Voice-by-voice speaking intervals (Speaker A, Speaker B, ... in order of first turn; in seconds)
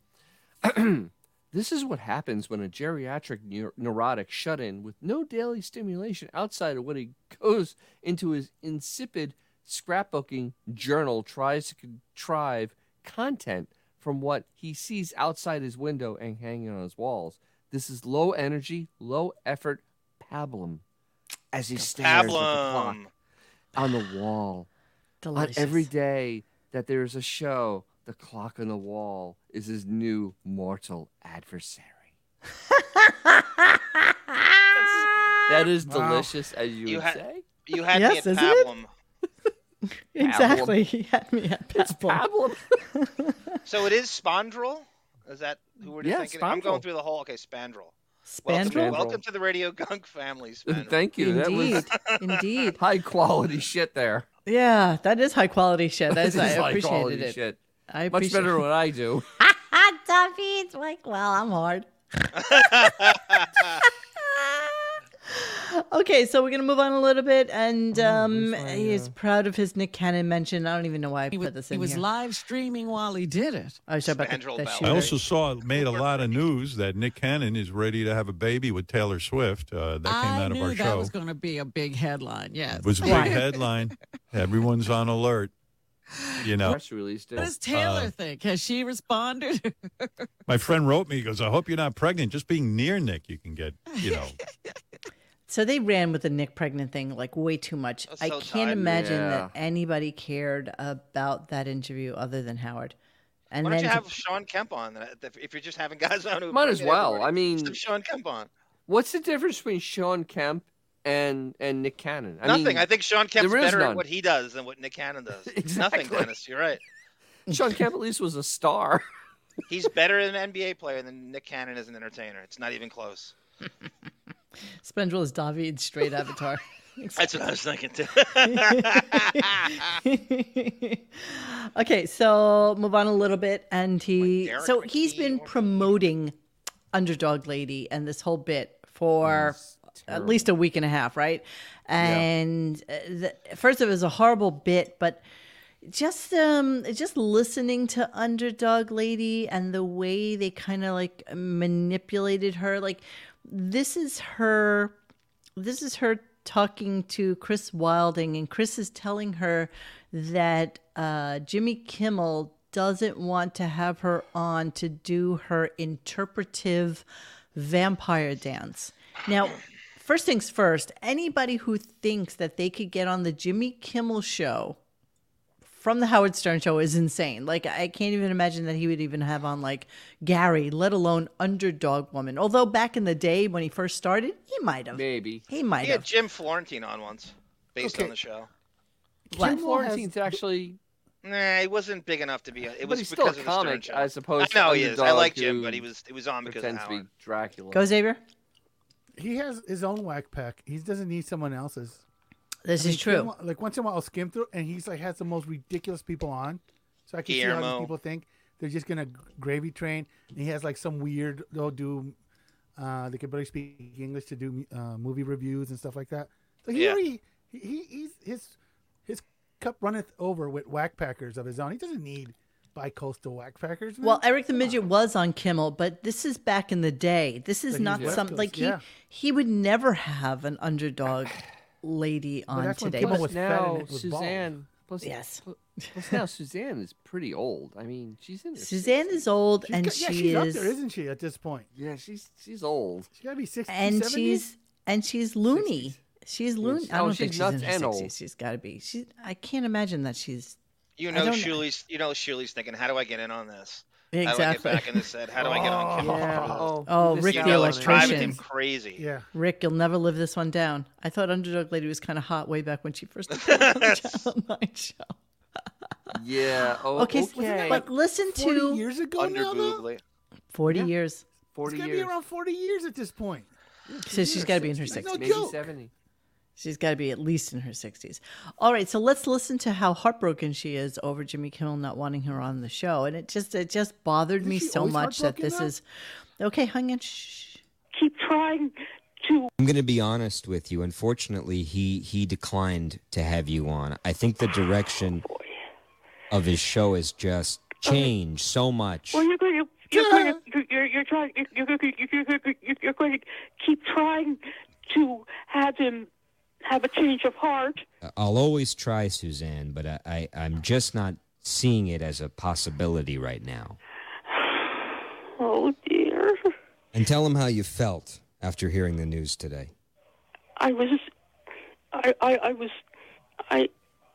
Speaker A: 0.6-20.8, 21.5-23.0, 23.8-24.7, 25.4-32.1, 35.5-37.4, 40.2-40.8, 41.7-42.7, 46.0-46.8, 48.5-49.2, 50.7-51.9, 52.7-54.3, 56.1-57.6, 58.1-59.2, 67.9-69.1, 86.6-87.5, 98.7-99.5, 106.5-107.8, 108.9-114.0, 115.5-116.3, 117.5-119.0, 139.2-140.5, 142.0-142.3, 184.9-185.4, 189.3-190.8, 192.8-195.8, 196.4-197.8, 227.8-228.2, 233.0-239.2, 241.7-243.1, 245.5-246.0, 246.6-248.1, 255.4-258.3, 266.1-267.8, 271.5-272.1, 273.9-275.9
Speaker B: 21.9-23.1, 34.8-35.0, 36.9-38.9, 43.6-47.9, 48.4-51.0, 62.4-63.8, 74.0-76.4, 98.1-99.0, 103.6-108.5, 112.4-116.8, 119.7-123.3, 127.2-129.9, 134.2-135.9, 185.8-188.5, 191.2-197.0, 207.2-207.9, 216.7-217.0, 251.0-256.7, 257.2-259.0, 263.4-264.1, 269.2-270.0
Speaker C: 25.2-25.9, 32.7-34.5, 37.9-38.7, 40.1-42.2, 42.9-43.6, 48.3-49.0, 51.2-52.8, 54.5-57.4, 57.9-58.6, 59.4-72.0, 73.9-75.1, 95.5-102.9, 103.5-104.1, 124.8-127.3, 128.4-136.3, 136.9-145.2, 145.8-154.9, 155.6-174.8, 175.7-186.1, 197.7-198.2, 202.6-203.3, 224.0-233.3, 235.0-236.2, 238.6-240.8, 243.7-250.6, 251.1-251.6, 254.1-255.1, 256.9-258.4, 259.3-265.1, 266.9-268.8, 270.5-271.2, 274.1-275.4, 276.6-285.8, 286.4-287.6
Speaker D: 35.8-36.3, 187.8-188.1, 189.3-190.4, 199.2-202.0, 202.8-212.1, 212.8-218.5, 219.1-224.8, 227.7-228.8, 232.5-234.5, 239.6-241.7, 243.2-244.4, 255.4-256.8, 259.0-259.3, 267.2-269.8, 271.6-275.7, 284.4-285.7, 299.9-300.4
Speaker E: 71.3-73.8, 80.0-83.8, 86.2-86.5, 87.4-90.1, 93.9-94.3
Speaker F: 74.8-81.1, 82.7-85.5, 86.4-86.8, 87.3-88.1, 90.5-94.4
Speaker G: 287.9-289.5, 295.1-295.6, 297.8-298.1, 299.1-306.1, 306.6-307.8, 314.4-314.7, 315.4-316.5, 320.6-321.1, 321.9-322.8
Speaker H: 289.6-295.2, 296.3-299.2, 308.0-313.8, 316.9-319.7